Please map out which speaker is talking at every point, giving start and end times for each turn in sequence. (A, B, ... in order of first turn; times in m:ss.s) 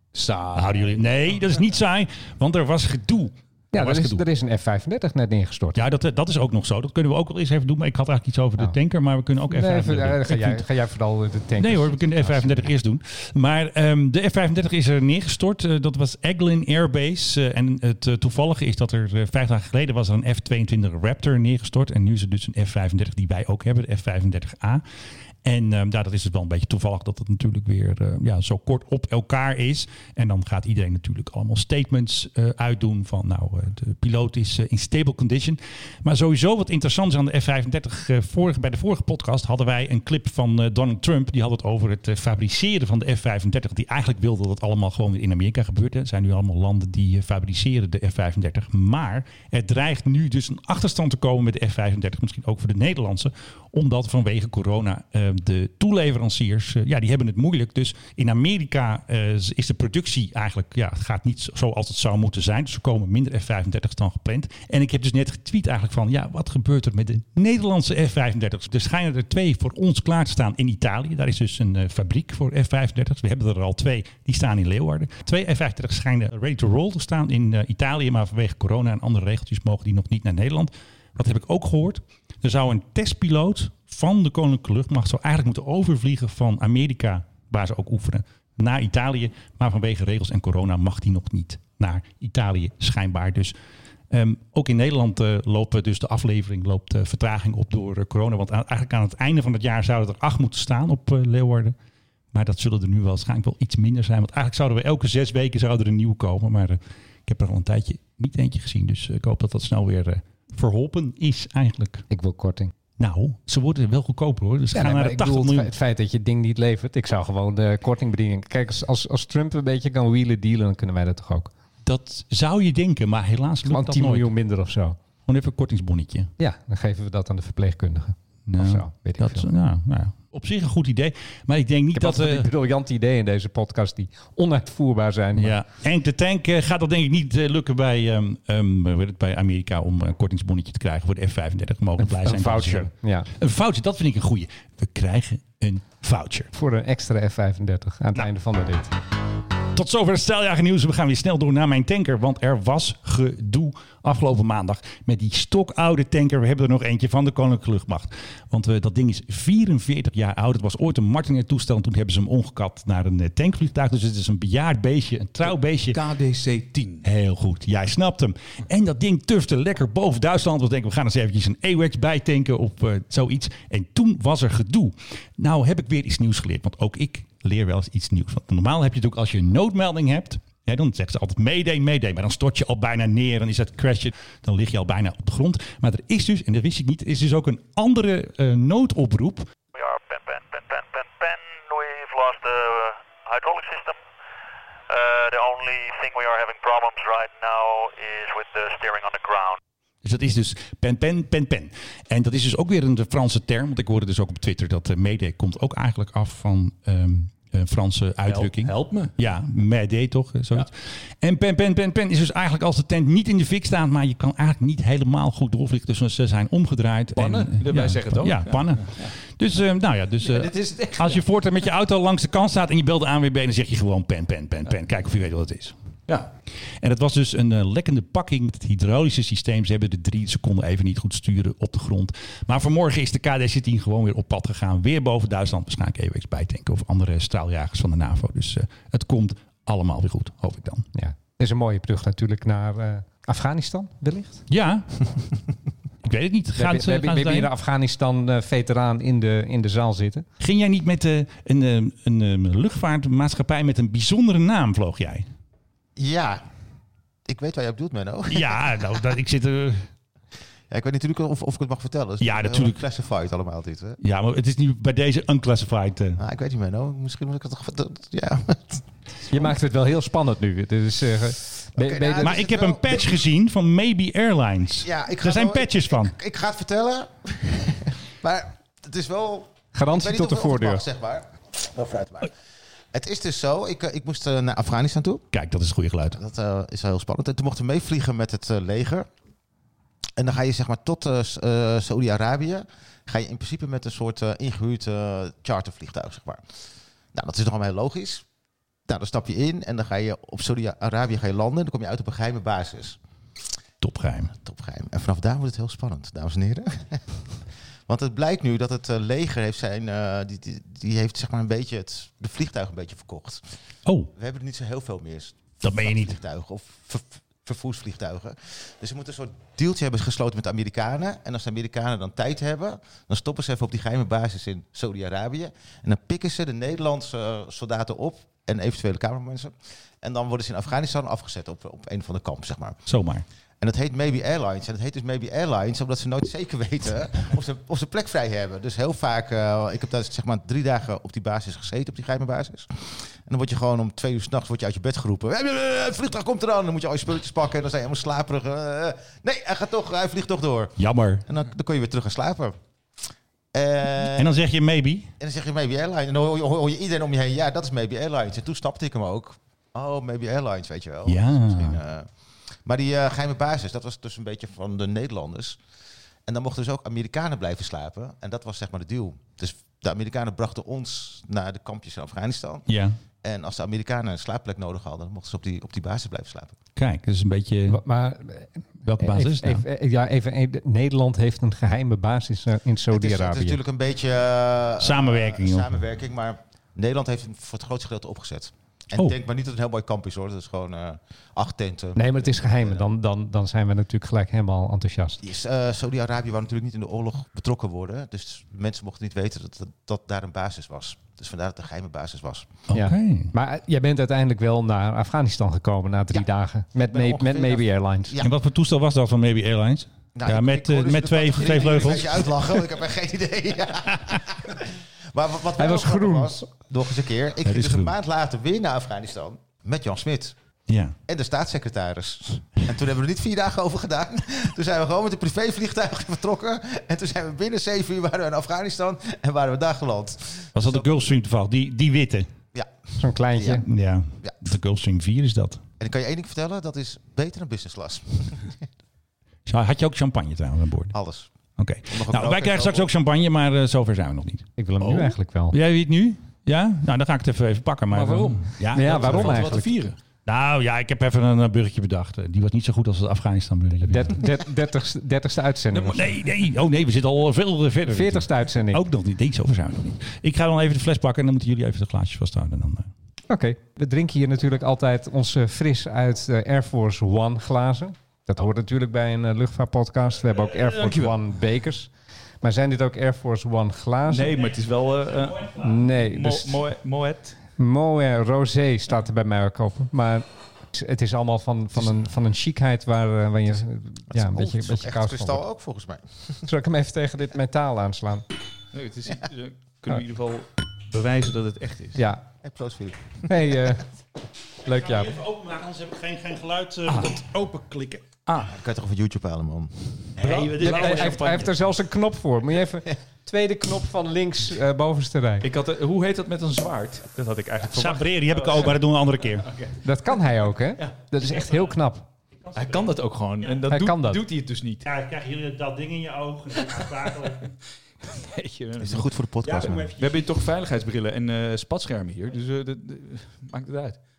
0:00.1-0:01.4 A
0:00.5-0:04.2 B
0:03.7-0:05.8 C
0:05.8-0:10.7 B
0:09.5-0:12.7 C
0:11.6-0:24.8 B
0:25.4-1:33.5 B
1:34.1-1:41.8 B
1:42.3-1:52.0 B
1:52.1-1:52.7 C
1:53.0-1:55.7 B
1:54.7-2:01.5 C
2:01.8-2:04.3 B
2:03.6-2:05.0 C
2:05.3-2:06.3 B
2:06.4-2:09.5 C
2:08.5-2:12.5 B
2:11.9-2:15.6 C
2:15.4-2:26.5 B
2:22.0-2:23.3 C
2:26.5-2:28.9 C
2:29.7-2:46.0 B
2:45.4-2:47.0 A
2:47.0-3:09.5 B
3:09.7-3:14.0 D
3:14.9-3:19.6 D
3:20.0-3:45.8 B
3:28.2-3:29.1 A
3:37.1-3:39.1 A
3:40.2-3:41.2 A
3:46.8-4:00.8 B
4:00.9-4:04.4 C
4:04.5-4:05.0 B
4:06.0-4:07.5 B
4:06.6-4:10.2 C
4:10.4-4:15.3 B
4:16.0-4:16.4 E
4:17.3-4:19.0 E
4:18.3-4:19.9 B
4:20.7-4:24.0 E
4:22.2-4:22.8 B
4:24.0-4:26.2 B
4:26.2-4:29.5 E
4:29.3-4:32.4 C
4:31.8-4:33.2 E
4:32.2-4:36.1 B
4:34.8-4:42.3 E
4:39.7-4:40.8 C
4:42.9-4:45.2 E
4:45.3-4:46.2 B
4:46.1-4:49.1 E
4:50.2-4:56.4 E
4:57.1-4:58.2 E
4:58.9-5:03.0 E
5:03.8-5:04.3 B
5:04.4-5:07.2 E
5:07.9-5:13.4 E
5:13.8-5:14.1 B
5:14.2-5:32.8 E
5:15.6-5:16.2 B
5:32.9-5:33.2 B
5:33.6-5:52.6 E
5:50.8-5:51.2 B
5:53.5-5:54.4 E
5:54.0-5:55.1 B
5:55.2-6:02.1 E
6:01.0-6:01.8 B
6:02.6-6:05.6 E
6:06.2-6:12.6 E
6:12.7-6:13.0 B
6:13.2-6:16.6 E
6:16.8-6:17.8 B
6:17.7-6:23.6 C
6:18.8-6:19.6 B
6:22.9-6:32.8 E
6:24.8-6:25.8 B
6:32.0-6:35.2 C
6:35.2-6:42.6 E
6:42.7-6:43.3 B
6:42.7-6:48.1 C
6:46.8-6:48.3 E
6:48.2-6:52.7 B
6:50.1-7:00.3 E
6:53.9-6:54.2 B
6:55.6-6:56.4 C
6:57.4-6:58.0 B
7:00.7-7:01.0 B
7:01.1-7:11.1 E
7:10.5-7:12.3 B
7:13.0-7:13.6 C
7:13.3-7:13.6 E
7:13.6-7:15.6 B
7:15.8-7:18.6 E
7:19.4-7:20.9 B
7:20.9-7:21.3 E
7:21.6-7:29.5 B
7:21.9-7:22.9 E
7:24.6-7:25.6 C
7:27.9-7:30.0 A
7:28.7-7:29.7 C
7:30.2-7:34.2 B
7:33.8-7:36.1 C
7:35.7-7:36.0 A
7:35.9-7:42.9 B
7:37.9-7:38.8 C
7:43.3-7:51.9 C
7:50.6-7:51.2 A
7:52.4-7:54.4 C
7:54.1-7:57.4 A
7:55.3-7:55.6 B
7:55.6-7:56.6 C
7:57.6-8:05.4 C
8:04.1-8:06.4 E
8:06.4-8:08.2 C
8:08.7-8:12.0 A
8:12.0-8:12.2 C
8:12.4-8:13.7 E
8:13.3-8:13.8 C
8:14.6-8:15.2 C
8:14.6-8:18.0 B
8:16.9-8:17.1 A
8:18.2-8:18.5 A
8:18.5-8:20.1 E
8:20.2-8:21.5 B
8:20.2-8:21.5 A
8:20.6-8:25.5 C
8:25.4-8:28.8 A
8:27.7-8:29.5 B
8:29.4-8:29.8 A
8:29.8-8:32.1 C
8:32.4-8:32.9 B
8:32.5-8:34.9 A
8:33.7-8:34.2 C
8:34.8-8:37.5 B
8:38.0-8:39.1 A
8:38.8-8:39.9 E
8:39.4-8:40.4 B
8:40.0-8:44.0 A